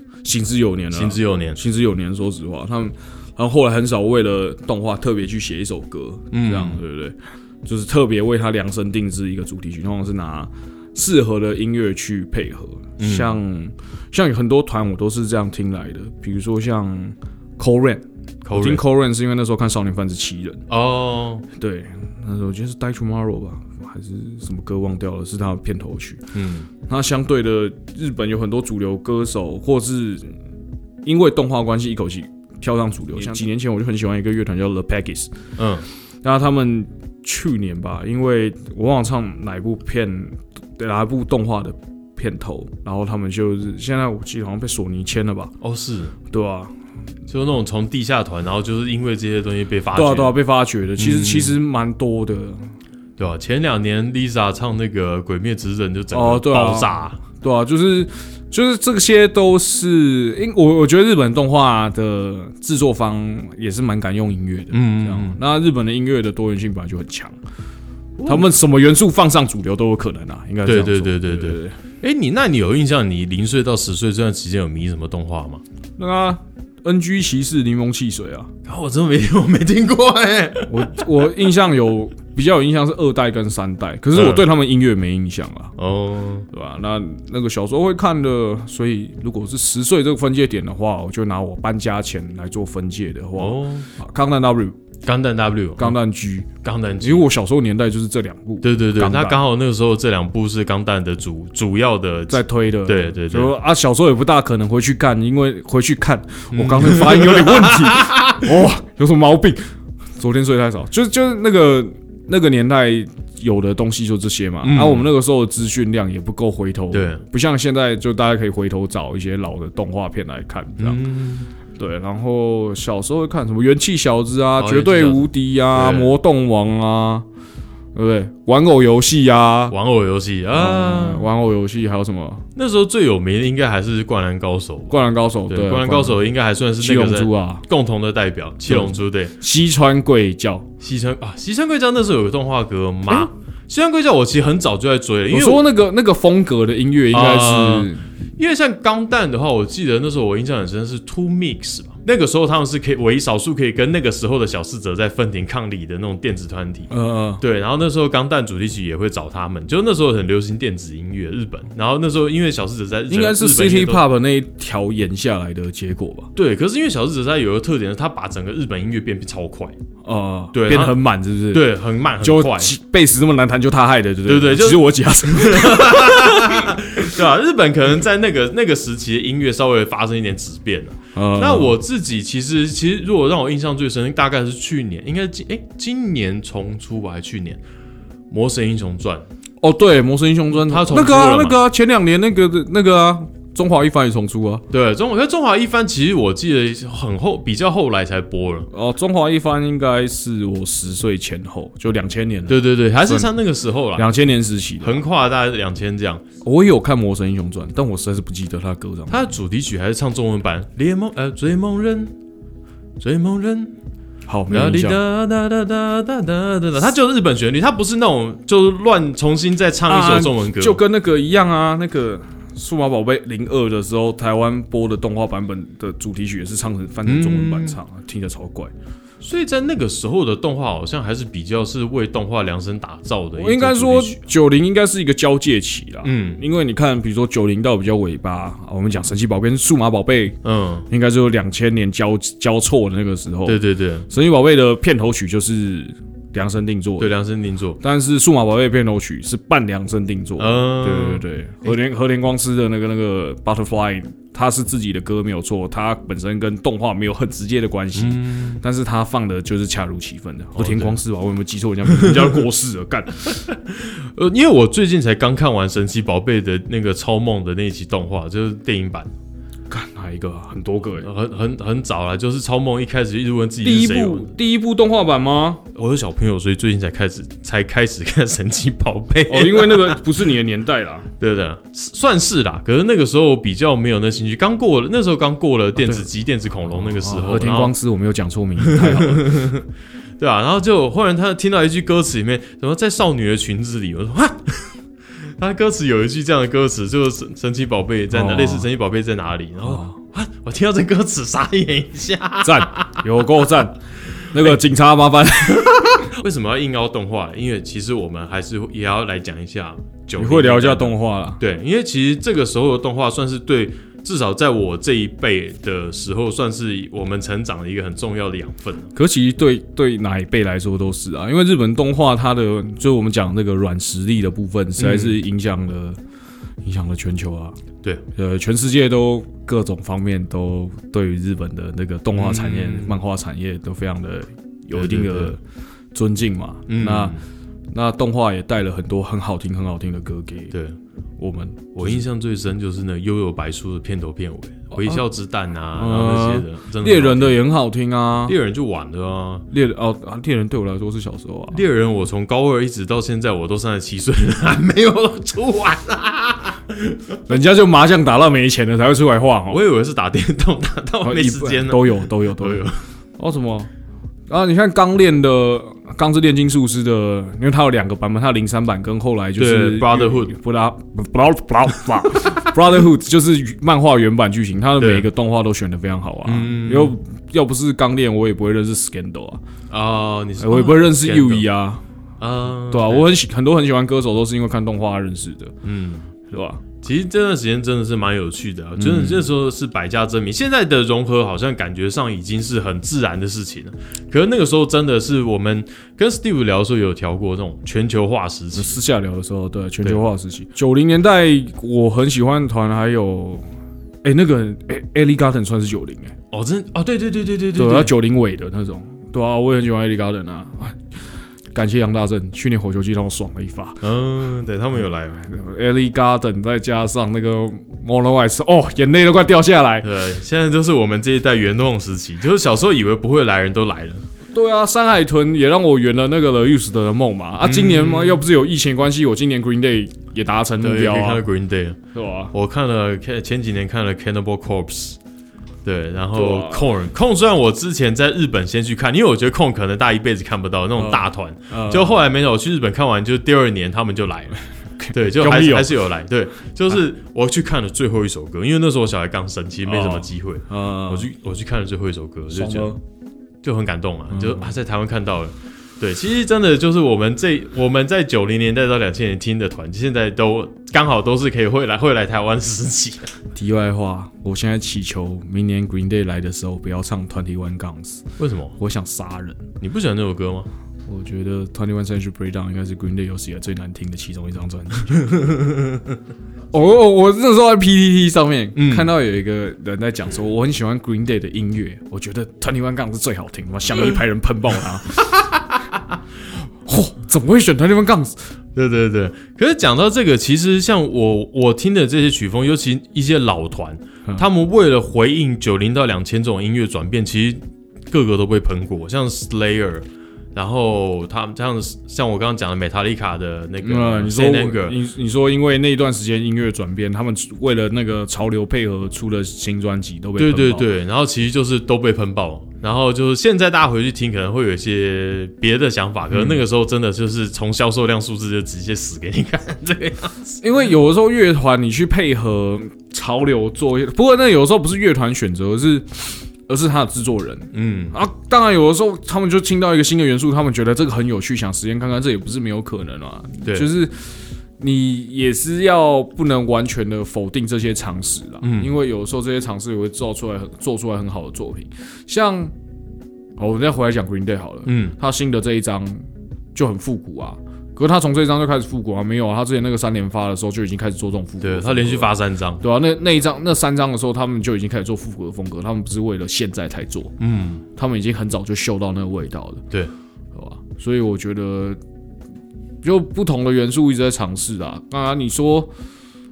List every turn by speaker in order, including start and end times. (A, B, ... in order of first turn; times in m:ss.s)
0:00.2-0:20.6 A
0:00.9-0:01.6 B
0:06.3-0:06.8 B
0:13.0-0:13.4 B
0:18.4-0:18.8 B
0:20.7-0:21.5 B
0:21.6-0:26.2 A
0:26.3-0:26.7 B
0:26.8-0:30.4 A
0:31.0-0:35.3 A
0:35.6-0:35.9 B
0:36.2-0:45.5 A
0:45.6-0:46.1 B
0:46.3-0:46.7 A
0:47.3-0:50.4 B
0:49.9-0:52.7 A
0:51.0-0:51.6 B
0:53.2-0:57.2 B
0:56.1-1:07.4 A
1:04.7-1:05.4 B
1:08.2-1:08.5 B
1:08.2-1:11.8 A
1:10.7-1:15.6 B
1:16.0-1:18.5 A
1:18.7-1:21.0 B
1:20.7-1:25.7 A
1:24.1-1:24.4 B
1:25.8-1:26.5 B
1:26.5-1:34.8 A
1:33.4-1:33.9 B
1:35.0-1:36.0 B
1:35.8-1:39.4 A
1:36.6-1:37.3 B
1:38.6-1:43.6 B
1:42.3-2:01.0 A
1:46.5-1:48.5 B
1:54.6-1:55.1 B
1:56.9-1:57.2 B
2:00.8-2:01.5 B
2:01.8-2:07.3 A
2:04.6-2:06.1 B
2:08.0-2:09.8 A
2:09.7-2:11.3 B
2:10.5-2:12.5 A
2:12.6-2:19.3 B
2:14.9-2:16.3 A
2:16.8-2:17.7 A
2:18.7-2:20.7 A
2:20.8-2:25.6 B
2:25.3-2:28.1 A
2:27.1-2:44.0 B
2:36.9-2:37.4 A
2:43.1-2:46.3 A
2:46.4-2:49.8 B
2:50.0-2:57.1 A
2:50.5-2:51.0 B
2:51.5-2:52.7 B
2:54.3-3:07.6 B
3:01.1-3:01.8 A
3:08.3-3:09.3 B
3:09.6-3:14.6 A
3:10.5-3:11.6 B
3:14.7-3:18.7 B
3:18.7-3:23.3 A
3:22.5-3:24.1 B
3:24.0-3:25.0 A
3:24.8-3:26.2 B
3:26.4-3:29.2 A
3:29.1-3:32.1 B
3:33.0-3:33.7 B
3:34.3-3:35.0 A
3:34.5-3:40.8 B
3:39.9-3:48.7 A
3:47.0-3:47.8 B
3:49.2-3:54.2 B
3:53.4-4:00.4 A
3:56.0-3:56.4 B
4:00.4-4:00.9 B
4:00.9-4:07.1 A
4:03.5-4:04.1 B
4:07.0-4:07.8 B
4:07.8-4:23.4 A
4:10.4-4:11.2 B
4:18.0-4:18.6 B
4:20.6-4:21.0 B
4:21.9-4:22.4 B
4:23.3-4:29.1 B
4:29.7-4:31.1 A
4:31.0-4:34.3 B
4:33.6-4:35.6 A
4:35.8-4:40.0 B
4:39.3-4:41.1 A
4:41.2-4:47.7 B
4:45.8-4:46.1 A
4:46.7-4:49.5 A
4:48.6-4:49.7 B
4:50.2-4:54.8 B
4:55.4-5:03.3 B
4:58.1-4:58.7 A
4:59.6-5:00.0 A
5:02.4-5:03.8 A
5:04.3-5:06.1 A
5:06.1-5:18.9 B
5:10.2-5:11.4 A
5:19.0-5:26.0 A
5:24.8-5:25.2 B
5:26.6-5:27.6 A
5:28.2-5:35.4 A
5:32.2-5:33.0 B
5:34.7-5:35.4 B
5:35.9-5:37.2 A
5:36.7-5:37.2 B
5:37.7-5:40.5 A
5:40.5-5:40.8 B
5:41.2-5:42.0 A
5:41.8-5:47.4 B
5:44.8-5:45.0 A
5:45.8-5:48.4 A
5:48.2-5:49.5 B
5:49.5-5:51.6 A
5:51.5-5:57.2 B
5:57.3-5:59.6 A
5:59.5-6:02.8 B
6:01.0-6:03.7 A
6:04.3-6:19.4 A
6:09.4-6:10.4 B
6:14.8-6:15.1 B
6:16.2-6:17.0 B
6:19.7-6:21.5 B
6:20.4-6:21.8 A
6:22.2-6:23.1 B
6:22.7-6:25.6 A
6:25.6-6:26.1 B
6:26.3-6:26.6 A
6:26.8-6:38.8 B
6:28.8-6:29.3 A
6:38.6-6:43.4 A
6:44.0-6:46.2 A
6:46.3-6:47.9 B
6:47.6-6:50.8 A
6:51.5-6:53.8 A
6:53.8-6:55.3 B
6:55.2-6:59.9 A
6:59.8-7:04.0 B
7:04.3-7:11.2 A
7:07.4-7:08.2 B
7:10.6-7:11.8 B
7:11.9-7:12.3 A
7:12.3-7:15.0 B
7:15.6-7:32.8 B
7:16.1-7:16.7 A
7:20.8-7:22.0 A
7:24.8-7:25.7 A
7:29.7-7:31.1 A
7:32.3-7:32.8 A
7:33.4-7:43.2 B
7:34.1-7:34.5 A
7:43.4-7:49.4 A
7:48.2-7:48.6 B
7:49.6-7:50.5 B
7:50.9-7:55.1 A
7:55.1-7:55.8 B
7:56.5-8:05.3 A
7:58.6-7:58.9 B
8:05.1-8:05.9 B
8:06.6-8:08.2 A
8:08.6-8:24.8 B
8:23.6-8:30.7 A
8:30.2-8:40.3 B
8:36.1-8:36.4 A
8:40.4-9:02.5 A
8:47.5-8:48.0 B
8:58.4-8:58.7 B
9:03.4-9:17.2 A
9:04.7-9:05.0 B
9:11.4-9:12.6 B
9:17.2-9:17.6 B
9:17.8-9:19.6 A
9:20.3-9:21.8 A
9:22.8-9:25.7 A